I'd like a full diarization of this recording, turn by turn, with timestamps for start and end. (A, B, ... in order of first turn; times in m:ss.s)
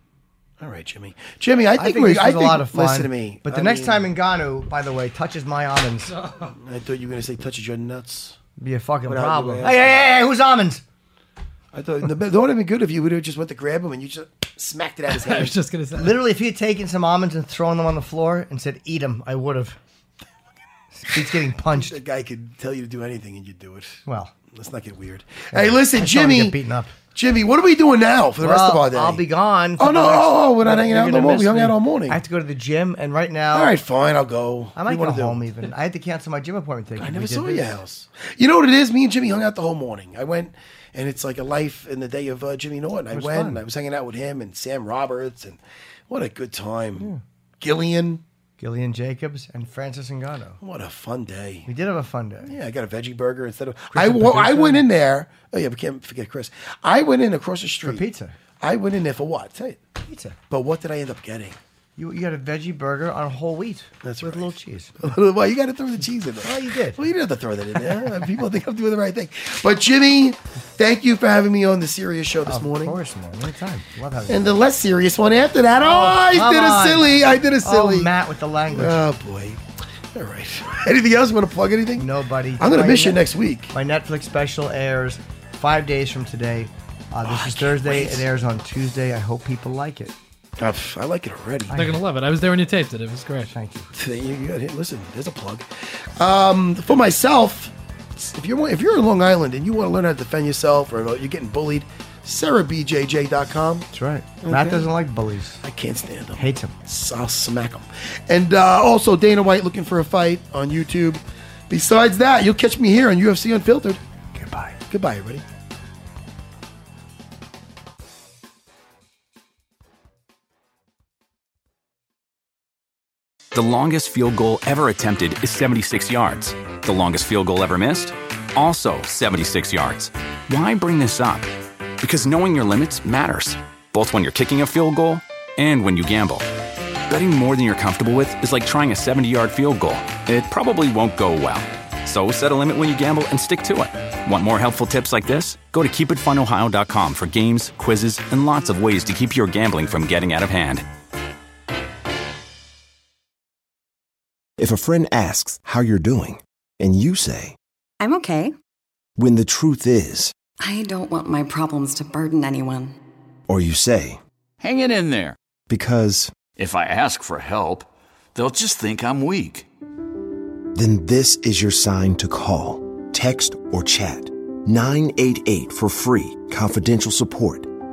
0:00.6-0:04.1 A
0:01.8-0:06.2 B
0:06.2-0:06.5 C
0:06.5-0:08.4 A
0:08.6-0:10.8 B
0:09.1-0:09.9 A
0:11.7-0:15.6 A
0:15.1-0:16.2 C
0:16.0-0:19.8 B
0:21.0-0:22.0 B
0:21.4-0:26.6 A
0:24.1-0:24.3 B
0:25.5-0:26.9 B
0:27.1-0:29.2 A
0:28.4-0:33.8 B
0:29.8-0:32.2 A
0:33.5-0:35.5 A
0:34.8-0:37.8 B
0:37.0-0:47.1 A
0:43.1-0:43.6 B
0:47.6-0:48.2 A
0:48.6-0:50.6 B
0:50.6-0:51.7 A
0:51.7-0:52.5 B
0:52.4-0:58.1 A
0:53.9-0:54.9 B
0:57.8-0:58.4 B
0:58.6-0:59.8 A
1:00.1-1:00.4 B
1:00.5-1:01.6 A
1:02.0-1:05.0 B
1:04.0-1:13.0 A
1:06.4-1:07.0 B
1:12.5-1:14.5 B
1:14.3-1:18.1 A
1:15.8-1:19.0 B
1:18.7-1:23.7 A
1:22.0-1:30.2 B
1:27.2-1:28.3 A
1:30.6-1:31.8 A
1:31.7-1:32.0 B
1:31.8-1:33.5 C
1:33.5-1:33.9 B
1:33.9-1:43.9 A
1:43.9-1:45.6 B
1:44.4-1:44.9 A
1:45.6-1:54.0 A
1:46.4-1:46.7 B
1:54.3-1:54.8 B
1:54.9-1:55.4 A
2:03.5-2:16.5 D
2:17.1-2:30.9 D
2:34.6-2:37.6 E
2:38.0-2:38.5 F
2:39.2-2:40.3 E
2:40.6-2:43.0 F
2:43.5-2:44.2 E
2:44.6-2:45.4 G
2:45.7-2:46.4 E
2:46.6-2:49.7 G
2:50.7-2:57.7 E